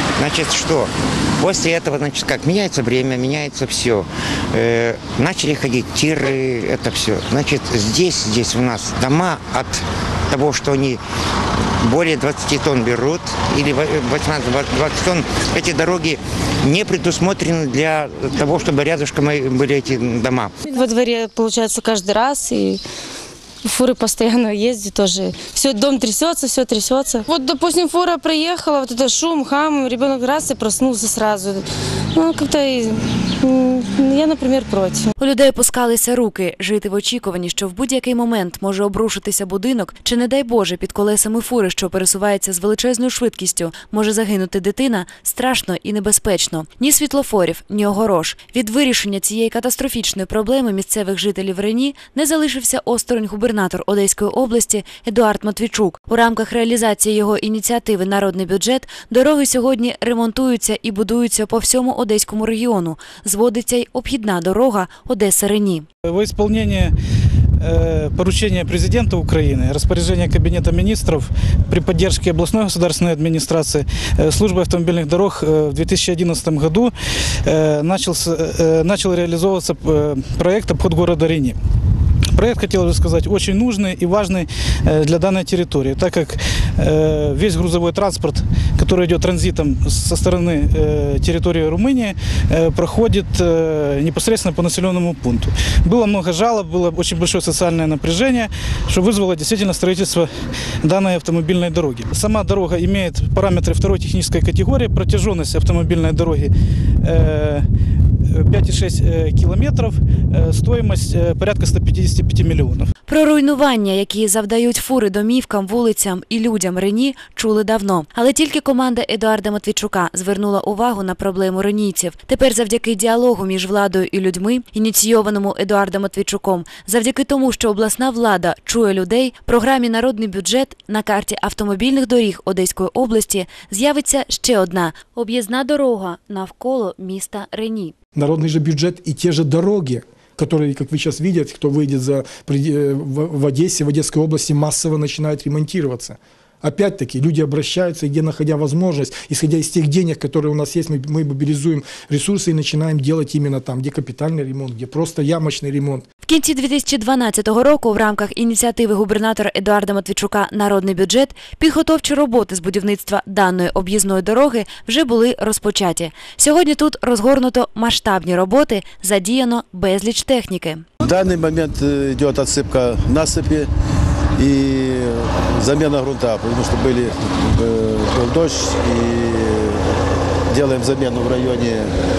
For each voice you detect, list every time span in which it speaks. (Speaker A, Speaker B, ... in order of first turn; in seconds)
Speaker A: 0.2-11.0, 11.8-20.5
Speaker B: 20.7-22.8, 23.6-35.1
Speaker C: 35.2-65.8, 113.1-137.9, 156.2-170.8
Speaker D: 66.1-66.9, 67.6-76.9, 77.4-81.6, 82.3-100.3, 100.8-106.5, 107.0-107.6, 108.3-112.9
Speaker E: 138.2-156.0
Speaker F: 171.0-173.7, 174.4-179.8, 180.5-181.9